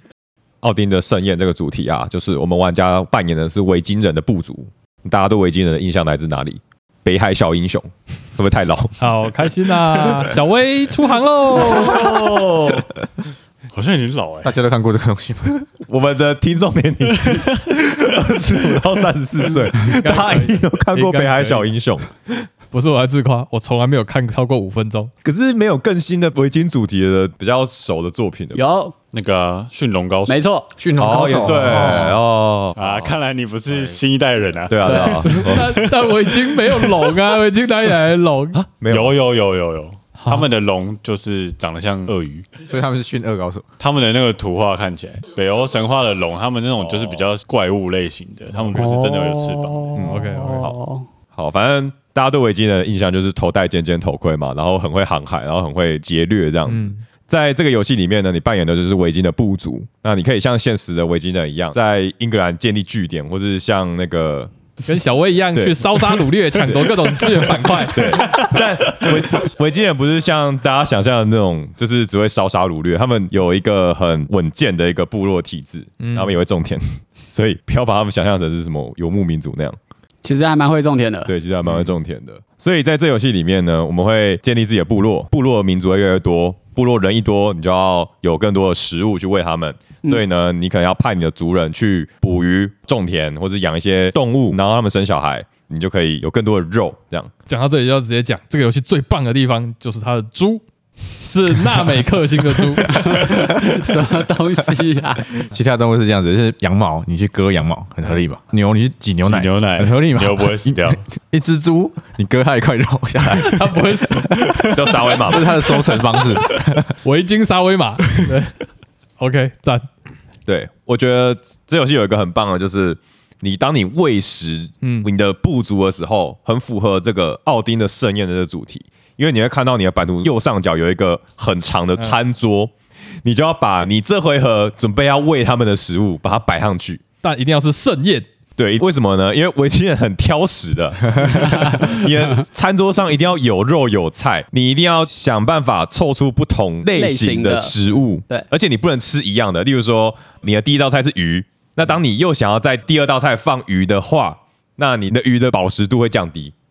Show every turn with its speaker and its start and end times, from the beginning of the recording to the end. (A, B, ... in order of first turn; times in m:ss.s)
0:00.6-0:09.0 A
0:09.0-0:12.1 B
0:11.6-0:12.9 A
0:13.7-0:14.5 C
0:14.4-0:15.7 D
0:15.9-0:22.5 A
0:19.8-0:21.7 B
0:22.7-0:25.1 B
0:25.2-0:28.6 A
0:28.5-0:29.0 E
0:29.1-0:30.4 C
0:30.3-0:30.7 E
0:30.8-0:32.2 D
0:31.0-0:33.2 A
0:32.8-0:37.2 C
0:34.7-0:35.8 A
0:34.9-0:35.2 E
0:35.3-0:38.6 B
0:38.5-0:39.2 A
0:38.9-0:42.5 C
0:40.2-0:40.5 B
0:42.7-0:43.7 D
0:43.8-0:50.0 C
0:48.8-0:51.1 E
0:50.0-0:50.8 A
0:50.0-0:50.7 B
0:51.3-1:04.5 A
0:56.7-0:57.0 B
1:04.9-1:08.2 B
1:05.5-1:06.2 A
1:06.8-1:19.8 A
1:08.2-1:09.1 C
1:16.0-1:16.3 B
1:20.2-1:21.3 E
1:21.3-1:37.3 A
1:37.5-1:40.6 B
1:41.2-1:43.3 B
1:42.7-1:43.5 D
1:42.9-1:45.4 E
1:45.5-1:56.9 D
1:49.2-1:51.0 C
1:53.4-1:54.8 B
1:54.7-1:55.5 A
1:55.5-1:58.7 B
1:59.2-1:59.8 B
2:00.5-2:12.7 A
2:04.8-2:05.1 B
2:13.2-2:17.0 A
2:17.2-2:18.3 B
2:18.6-2:36.5 A
2:26.9-2:27.7 E